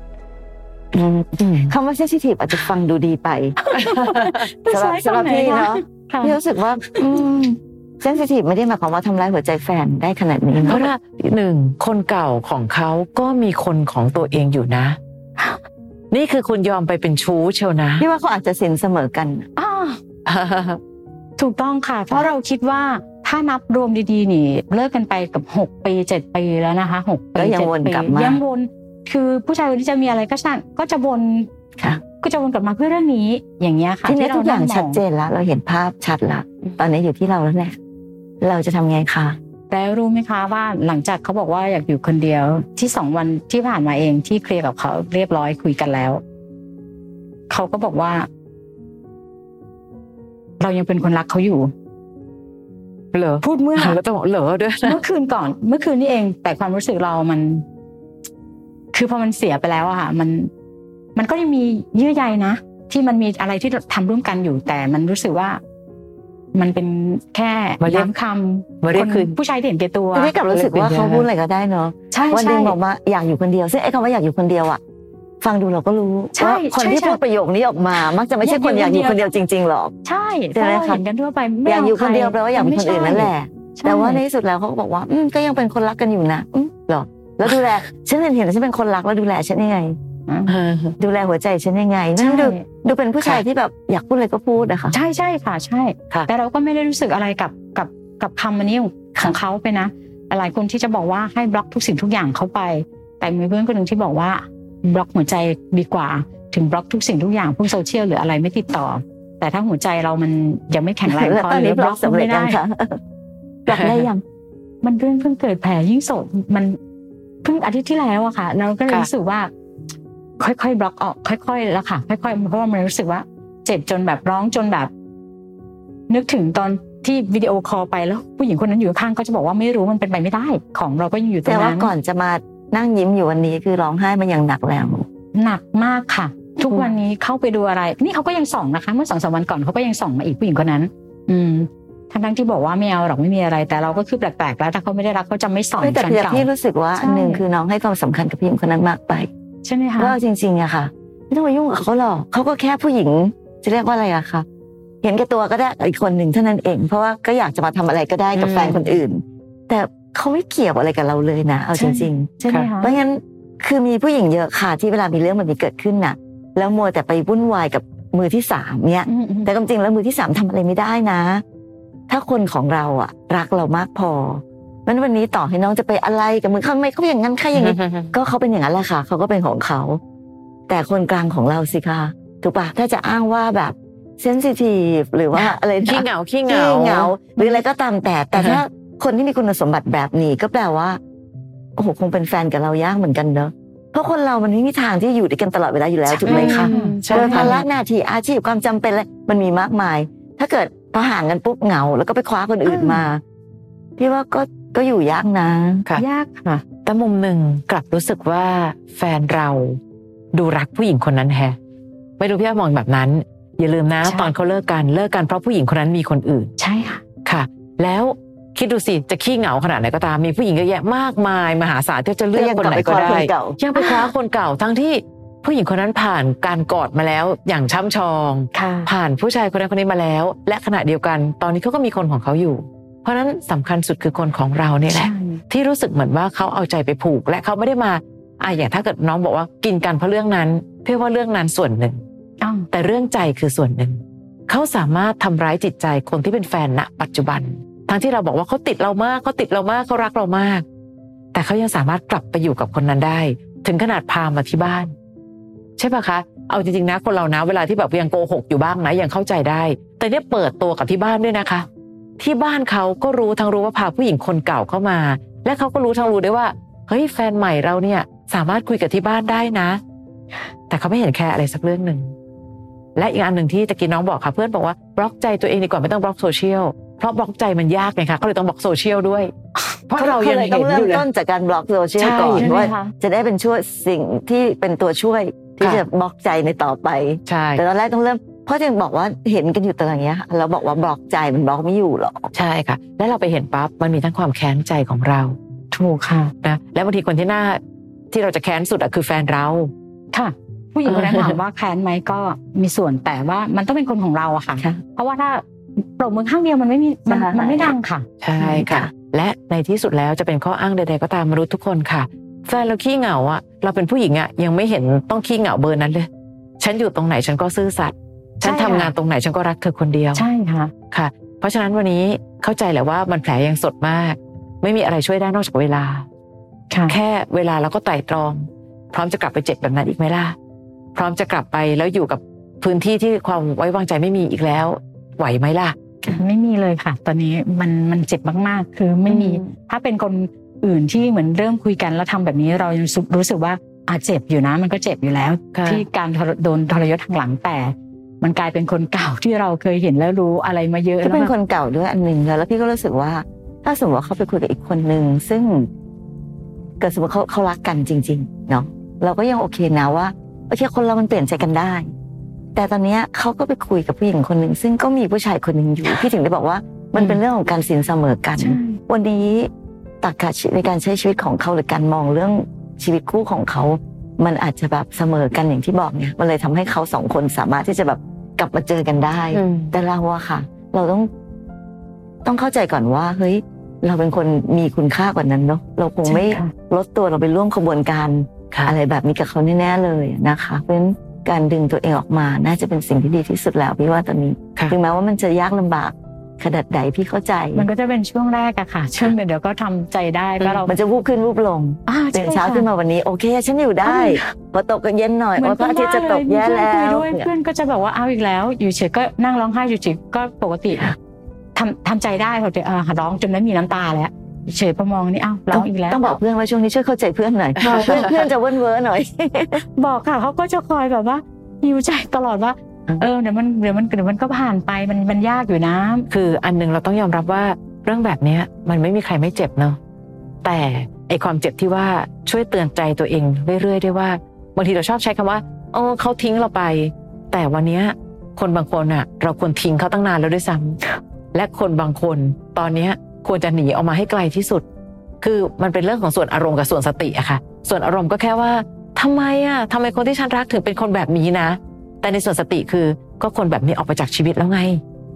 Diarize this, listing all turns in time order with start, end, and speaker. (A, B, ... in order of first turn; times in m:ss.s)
0:00.9-0:03.6 A
0:03.6-0:06.4 B
0:03.7-0:04.4 C
0:04.7-0:10.9 A
0:10.7-0:15.0 C
0:16.1-0:18.0 C
0:18.0-0:19.5 A
0:19.6-0:20.0 B
0:20.2-0:20.8 C
0:21.4-0:31.5 B
0:27.4-0:28.4 A
0:32.2-0:35.0 B
0:34.0-0:37.8 A
0:38.4-0:39.4 A
0:39.7-0:46.2 B
0:47.5-0:48.3 B
0:50.6-0:51.7 B
0:53.1-0:55.0 C
0:53.4-0:54.0 B
0:54.8-0:57.6 B
0:58.9-1:00.5 B
1:01.1-1:05.6 B
1:06.5-1:10.3 B
1:07.8-1:08.1 C
1:08.8-1:09.3 C
1:10.1-1:14.8 A
1:10.5-1:11.2 C
1:12.1-1:12.8 B
1:15.4-1:19.9 A
1:16.3-1:17.2 B
1:18.4-1:19.3 B
1:20.0-1:24.2 B
1:20.5-1:21.0 A
1:21.6-1:30.0 A
1:30.3-1:30.5 B
1:30.4-1:31.0 C
1:31.0-1:35.0 A
1:32.2-1:32.6 B
1:34.9-1:52.6 B
1:51.1-1:53.0 A
1:53.6-1:54.2 A
1:53.7-1:54.1 C
1:54.8-1:56.8 B
1:57.4-1:59.5 B
2:00.4-2:04.9 B
2:06.1-2:11.9 B
2:11.4-2:15.0 A
2:15.3-2:27.4 B
2:25.8-2:29.3 A
2:29.6-2:30.2 B
2:30.0-2:34.4 A
2:35.0-2:51.4 A
2:38.3-2:38.9 C
2:41.7-2:43.0 B
2:49.1-2:49.5 B
2:52.1-3:00.0 A
2:57.5-2:58.1 C
3:00.7-3:11.0 A
3:05.4-3:07.1 C
3:07.4-3:07.6 B
3:08.3-3:08.6 C
3:11.8-3:23.2 A
3:16.1-3:17.6 B
3:16.2-3:17.7 C
3:22.6-3:23.1 B
3:24.0-3:25.9 A
3:26.0-3:26.6 B
3:26.8-3:29.8 C
3:30.3-3:31.6 C
3:32.2-3:36.5 C
3:34.0-3:34.3 B
3:36.6-3:37.0 B
3:37.2-4:02.0 C
3:42.3-3:43.6 A
3:43.6-3:44.1 B
3:48.5-3:48.9 B
3:54.9-3:55.4 B
4:02.4-4:02.7 B
4:02.7-4:10.6 C
4:11.3-4:14.9 C
4:15.8-4:21.7 C
4:22.2-4:29.8 C
4:30.7-4:32.1 C
4:33.0-4:39.3 C
4:39.9-4:41.0 C
4:40.0-4:52.3 A
4:42.0-4:42.6 C
4:42.4-4:42.9 B
4:47.3-4:47.6 C
4:52.3-4:55.4 C
4:55.7-4:56.3 B
4:56.4-4:57.6 C
4:58.1-4:59.7 C
5:00.1-5:08.0 B
5:00.8-5:01.4 C
5:07.1-5:07.7 A
5:08.2-5:16.1 C
5:08.4-5:08.9 A
5:16.6-5:20.2 C
5:18.4-5:18.9 B
5:20.1-5:20.7 B
5:20.9-5:26.0 C
5:26.7-5:27.0 B
5:26.9-5:30.4 C
5:31.0-5:35.8 C
5:36.0-5:51.3 B
5:39.1-5:39.5 C
5:45.5-5:45.8 C
5:51.0-5:55.7 A
5:56.8-6:01.9 A
6:02.5-6:09.5 A
6:08.4-6:08.8 B
6:10.0-6:21.1 A
6:19.3-6:19.7 C
6:22.2-6:37.7 A
6:26.0-6:26.5 B
6:37.5-6:40.7 B
6:40.6-6:47.3 A
6:41.9-6:42.7 B
6:43.8-6:44.3 B
6:45.4-6:50.9 B
6:51.5-6:56.2 B
6:55.5-6:59.6 A
6:57.6-6:58.2 C
6:59.7-7:06.1 B
7:06.1-7:09.8 C
7:10.4-7:20.8 C
7:21.3-7:24.6 C
7:25.2-7:34.8 C